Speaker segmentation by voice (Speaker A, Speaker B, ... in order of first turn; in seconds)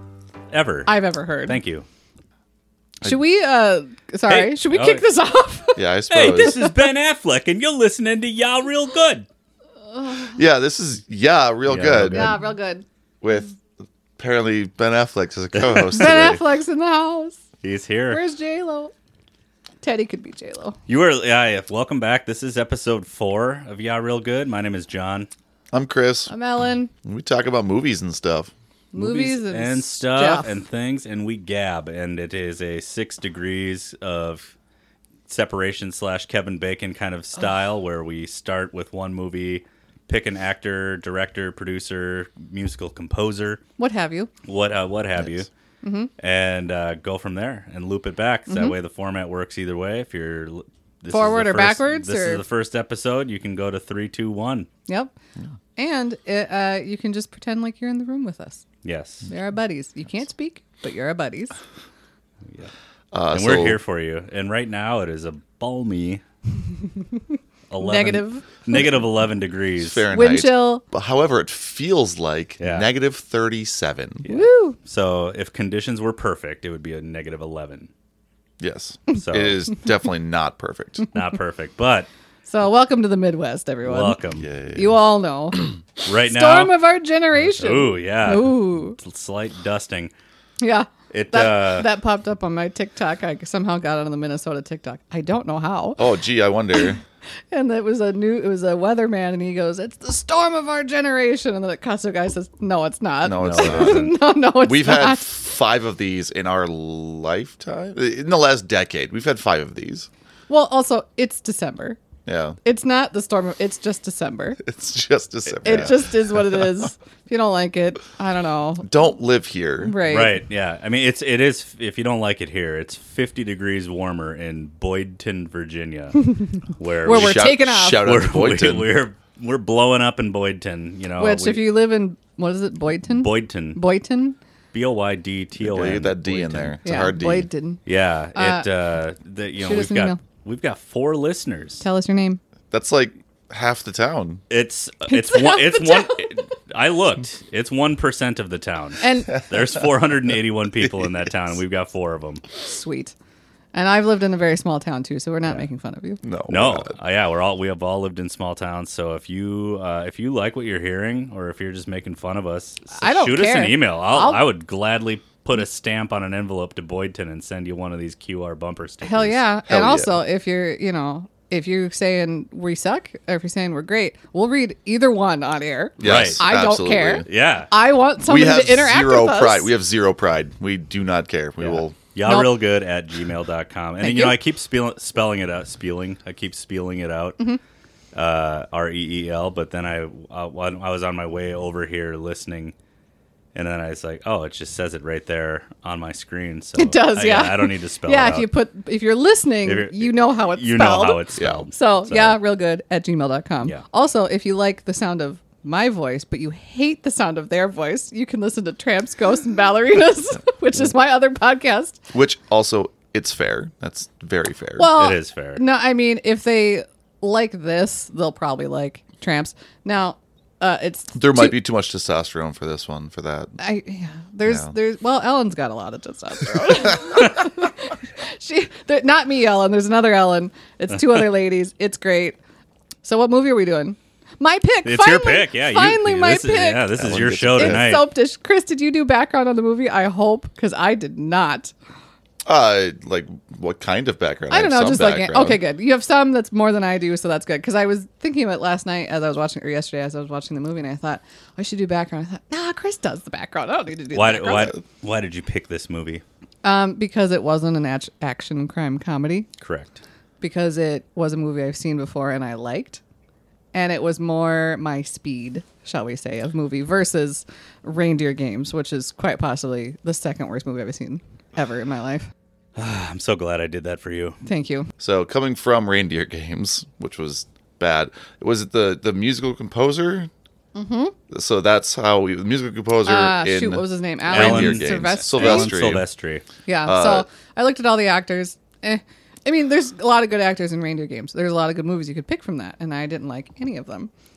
Speaker A: 0.5-1.8, 4.3-5.0, 6.1-9.3, 11.7-12.4, 15.6-15.9, 17.6-18.2, 20.9-25.3, 28.9-34.5, 35.3-43.6, 44.4-45.5, 46.2-54.7, 58.8-59.3, 63.3-66.2, 67.7-70.1, 72.6-72.9, 74.2-77.9, 79.1-79.6, 81.1-82.1, 83.8-84.5, 86.0-86.7, 87.4-90.1, 91.1-91.9, 103.4-104.2, 120.1-131.7, 133.1-133.8, 134.7-136.8, 137.8-141.8, 144.5-152.4, 156.5-169.4, 176.0-176.4, 177.2-177.7, 181.6-187.4, 188.1-192.7, 193.5-198.5, 199.6-202.4, 214.9-215.6, 231.0-231.2, 234.8-238.1, 254.1-256.2, 259.6-260.0, 272.8-274.4, 284.3-286.4
Speaker B: 0.8-1.6, 3.0-6.9, 9.9-10.4, 12.1-12.8, 15.9-17.4, 18.1-18.9, 19.8-20.8, 26.3-26.9, 28.9-30.5, 43.8-44.3, 45.8-46.1, 48.5-48.7, 51.1-52.4, 54.9-55.1, 55.8-58.6, 59.3-61.5, 67.0-68.8, 70.1-70.8, 74.2-74.8, 82.4-84.2, 84.7-85.7, 86.2-89.0, 90.6-96.0, 97.5-105.3, 110.5-112.0, 112.6-114.6, 115.6-118.9, 119.8-120.4, 126.2-126.5, 127.0-128.1, 131.2-134.4, 136.8-137.8, 138.3-138.7, 139.6-140.2, 141.8-142.4, 145.1-146.3, 149.0-149.4, 152.6-153.1, 153.7-156.2, 162.9-164.4, 169.0-179.7, 182.2-182.6, 184.0-184.4, 196.8-212.0, 214.8-221.6, 223.6-232.4, 233.0-236.9, 237.6-241.7, 244.5-254.8, 256.6-259.5, 260.4-263.0, 263.7-272.3, 274.4-274.9, 280.7-281.1, 283.0-285.7, 286.6-294.1
Speaker C: 5.8-6.6, 10.3-12.4, 13.2-13.5, 14.2-16.4, 25.7-26.3, 27.0-28.5, 63.1-63.8, 69.8-74.2, 78.6-81.1, 84.3-85.0, 96.0-97.0, 103.2-110.1, 112.2-112.6, 114.6-116.7, 118.8-120.0, 127.0-128.9, 135.6-137.5, 142.7-144.4, 150.8-151.2, 156.2-156.9, 169.7-170.2, 176.0-177.2, 178.2-182.0, 201.3-201.7, 212.1-214.9, 221.1-223.6, 224.4-224.7, 237.0-237.9, 242.4-245.6, 275.0-280.3, 281.3-286.0, 286.8-287.2